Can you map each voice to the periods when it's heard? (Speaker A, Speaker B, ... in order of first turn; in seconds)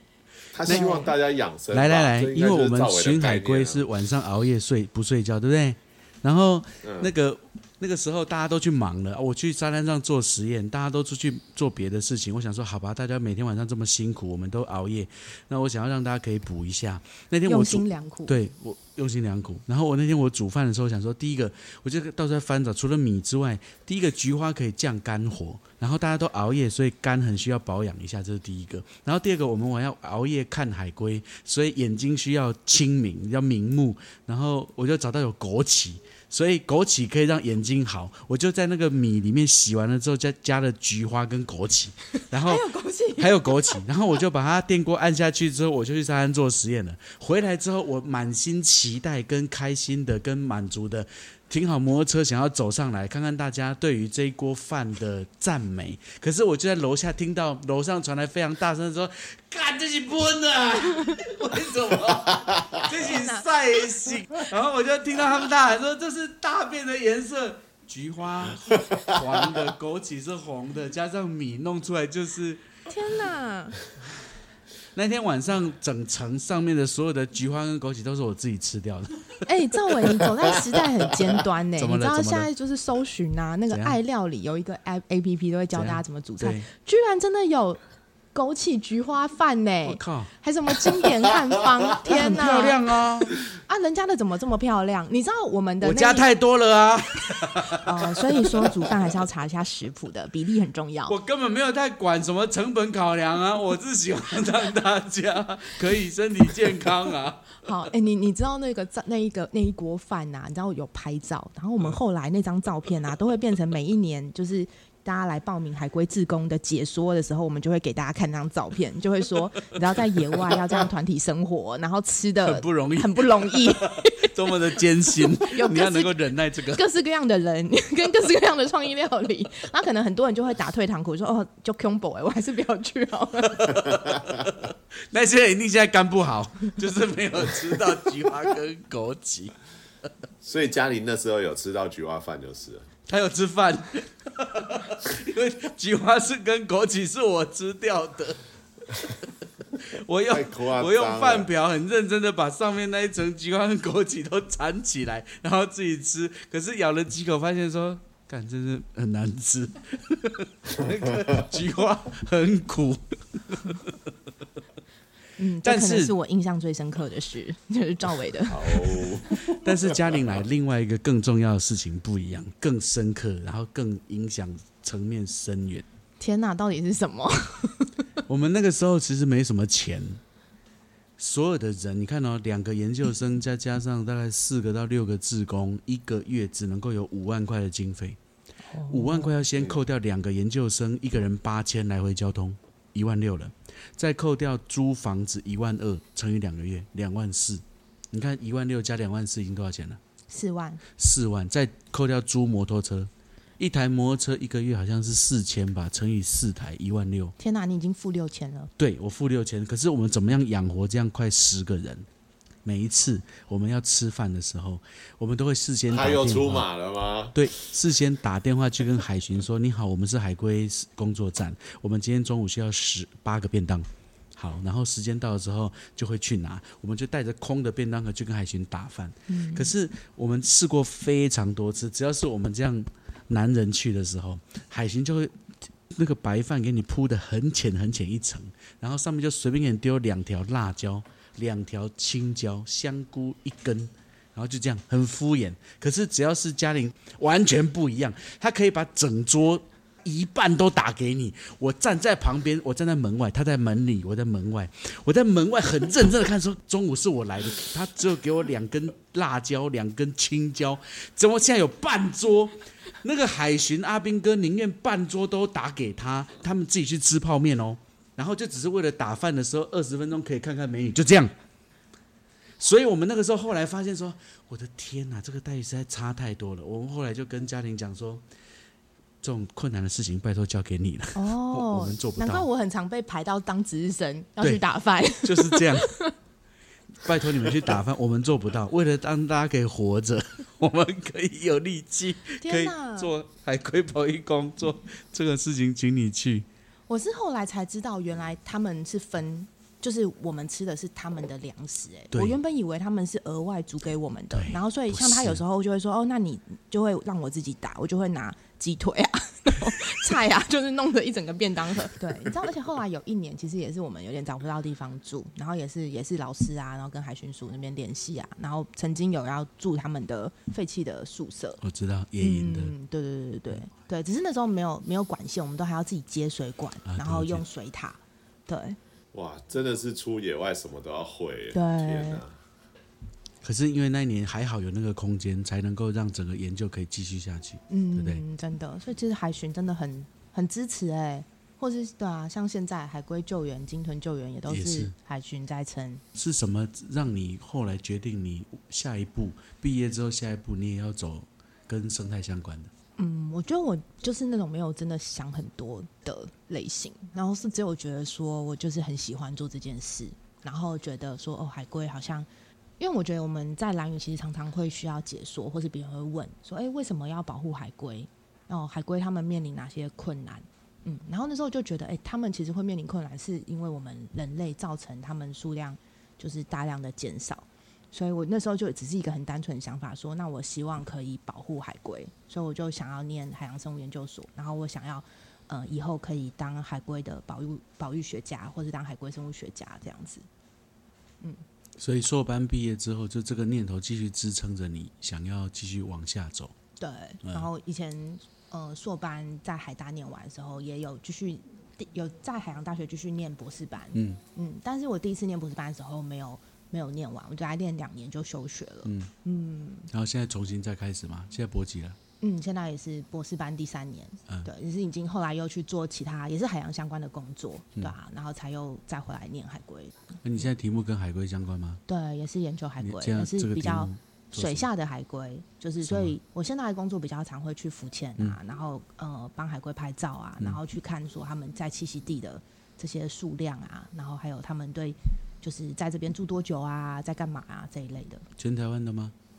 Speaker A: 0.5-3.8, 6.8-7.1, 140.4-142.9, 150.3-151.5, 168.5-170.3, 215.9-217.4, 329.1-332.3
Speaker B: 0.7-1.1, 17.4-18.3, 42.3-43.8, 62.9-64.2, 72.9-73.8, 79.4-87.8, 88.3-92.8, 93.4-96.2, 97.7-101.1, 107.6-134.1, 165.4-169.1, 176.2-178.0, 188.7-189.3, 200.3-200.8, 207.4-208.7, 229.3-229.7, 281.1-286.1, 292.4-293.1, 296.9-321.6, 322.2-328.8, 331.5-332.2, 337.7-346.0, 353.0-362.3, 362.8-390.2, 396.8-409.9, 412.2-420.5, 421.9-438.2
Speaker C: 1.7-42.6, 43.2-72.7, 74.9-79.3, 81.8-82.5, 83.7-84.0, 85.7-86.7, 89.8-90.3, 92.0-93.3, 95.8-98.9, 101.1-107.9, 122.4-126.8, 133.5-139.5, 143.1-148.4, 149.8-164.0, 165.6-166.1, 169.5-175.8, 178.3-180.2, 181.2-188.2, 188.9-200.0, 201.0-207.3, 208.8-212.1, 212.6-216.6, 217.3-271.3, 272.6-278.2, 279.2-282.5, 285.2-286.0, 286.9-296.4, 302.1-302.4, 304.3-305.4, 321.6-322.7, 326.9-327.4, 333.4-338.2, 344.5-344.9, 346.1-352.7, 391.8-396.5, 397.2-397.5, 403.9-404.2, 408.8-409.1, 409.9-412.0, 420.2-421.8, 422.8-424.7, 425.8-426.1, 438.4-439.1